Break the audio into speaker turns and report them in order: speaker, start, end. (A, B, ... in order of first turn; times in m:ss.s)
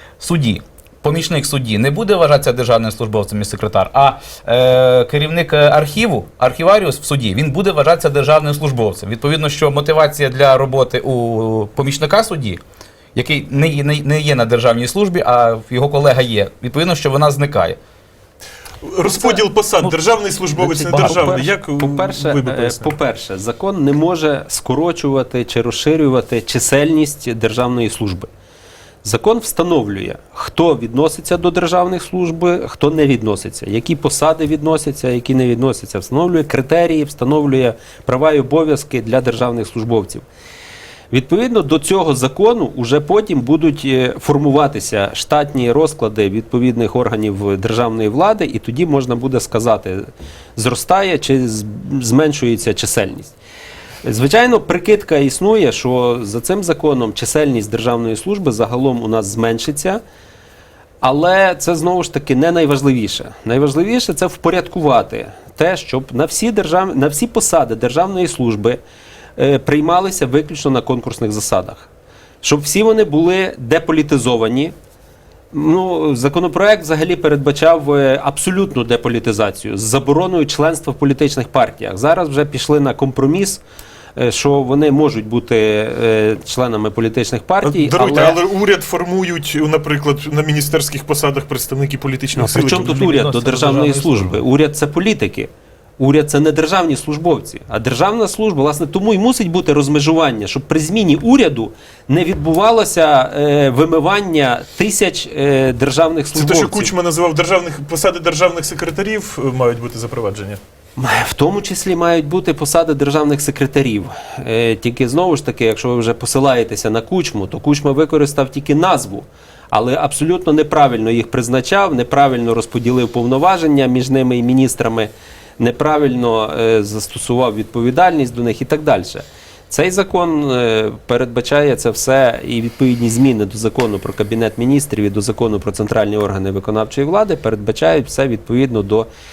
0:00.2-0:12.6 A
0:13.2-0:17.8 A
0:18.8-0:23.0 B
0:19.1-0:20.0 A
0:20.6-0:28.3 C
0:29.0-0:40.2 C
0:41.1-0:53.4 C
0:54.0-1:00.0 C
1:01.0-1:08.8 C
1:09.4-1:11.9 C
1:12.4-1:14.8 C
1:15.5-1:23.6 C
1:24.2-1:28.4 C
1:27.6-1:33.0 B
1:32.4-1:46.9 C
1:32.7-1:34.4 A
1:46.3-1:50.6 B
1:51.0-2:19.1 C